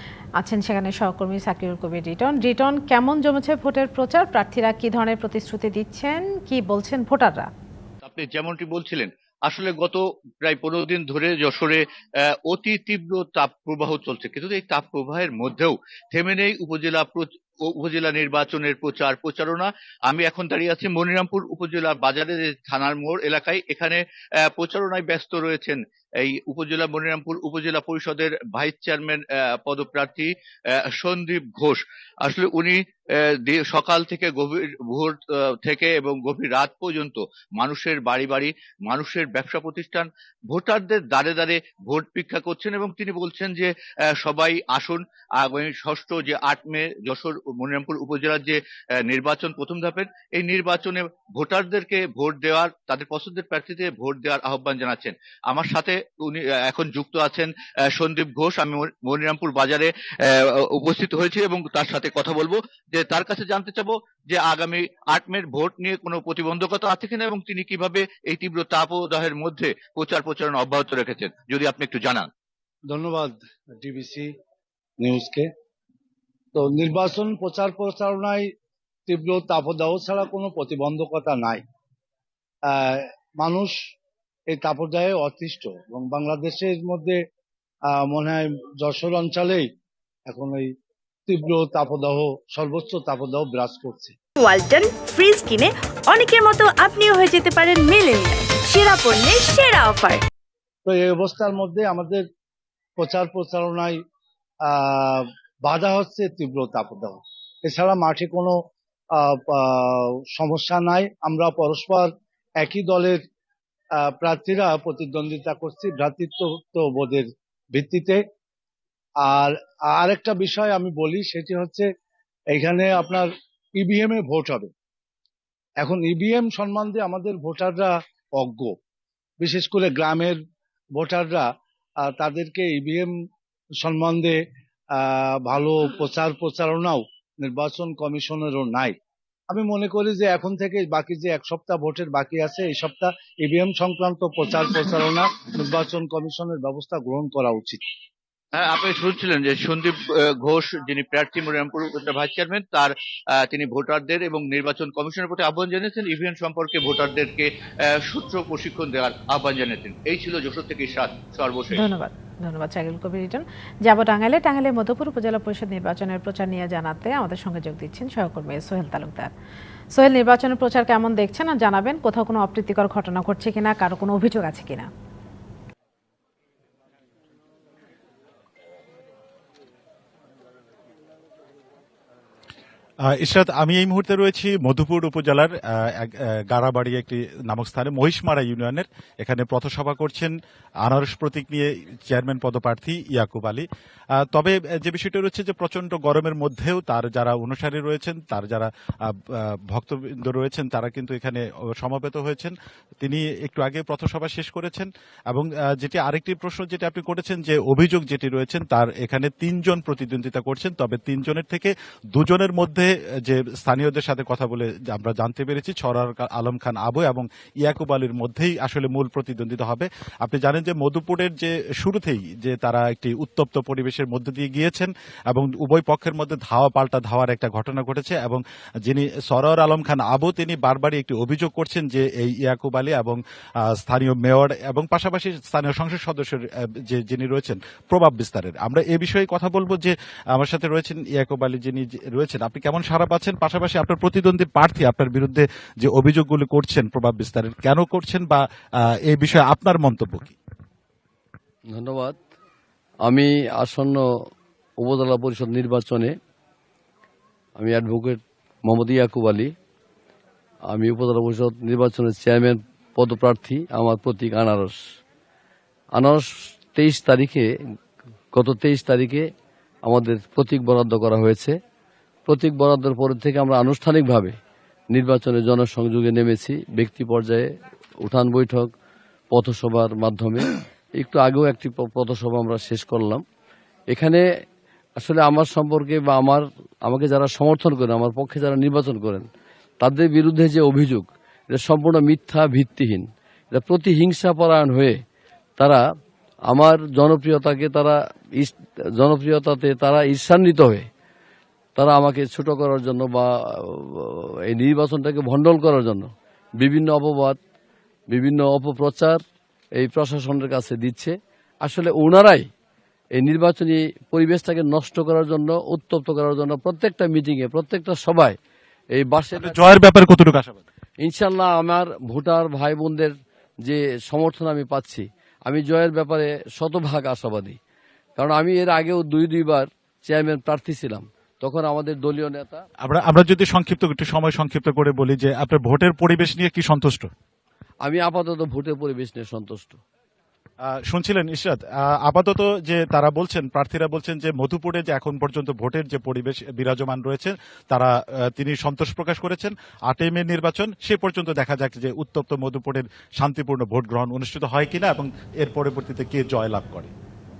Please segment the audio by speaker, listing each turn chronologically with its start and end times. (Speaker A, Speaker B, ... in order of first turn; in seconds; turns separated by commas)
Speaker A: 0.4-7.5, Speaker B: 8.0-11.8, Speaker B: 12.4-72.3, Speaker C: 72.9-74.3, Speaker C: 75.0-75.5, Speaker C: 76.5-78.5, Speaker C: 79.1-81.6, Speaker C: 82.7-83.8, Speaker C: 84.5-87.2, Speaker C: 87.9-89.7, Speaker C: 90.3-90.7, Speaker C: 91.3-94.1, Speaker D: 94.4-100.2, Speaker C: 100.8-102.2, Speaker C: 103.0-104.0, Speaker C: 104.7-108.5, Speaker C: 109.2-113.2, Speaker C: 114.0-118.2, Speaker C: 119.2-121.9, Speaker C: 122.5-124.7, Speaker C: 125.8-128.7, Speaker C: 129.4-130.4, Speaker C: 130.9-131.4, Speaker C: 132.0-133.1, Speaker C: 133.8-134.4, Speaker C: 134.9-138.9, Speaker C: 139.5-147.8, Speaker B: 148.5-152.9, Speaker B: 153.4-161.9, Speaker A: 161.7-169.3, Speaker A: 169.9-174.9, Speaker E: 183.1-193.7, Speaker E: 194.2-248.4, Speaker E: 249.1-250.3, Speaker F: 251.7-252.2, Speaker F: 253.1-254.0, Speaker F: 254.8-256.1, Speaker F: 257.6-259.5, Speaker F: 260.7-264.8, Speaker F: 265.9-267.5, Speaker F: 268.3-269.2, Speaker F: 269.9-271.5, Speaker F: 272.3-274.4, Speaker F: 274.9-277.5, Speaker F: 278.0-278.7, Speaker F: 279.3-283.2, Speaker F: 283.9-284.2, Speaker F: 285.0-289.2, Speaker F: 289.8-295.0, Speaker F: 296.5-300.8, Speaker F: 301.8-306.1, Speaker F: 306.6-307.4, Speaker F: 308.1-309.2, Speaker F: 309.8-312.5, Speaker F: 313.1-318.4, Speaker F: 318.9-319.6, Speaker E: 319.4-320.6, Speaker F: 321.0-327.6, Speaker F: 328.2-332.6, Speaker E: 332.8-337.1, Speaker F: 337.8-339.8, Speaker E: 340.9-356.9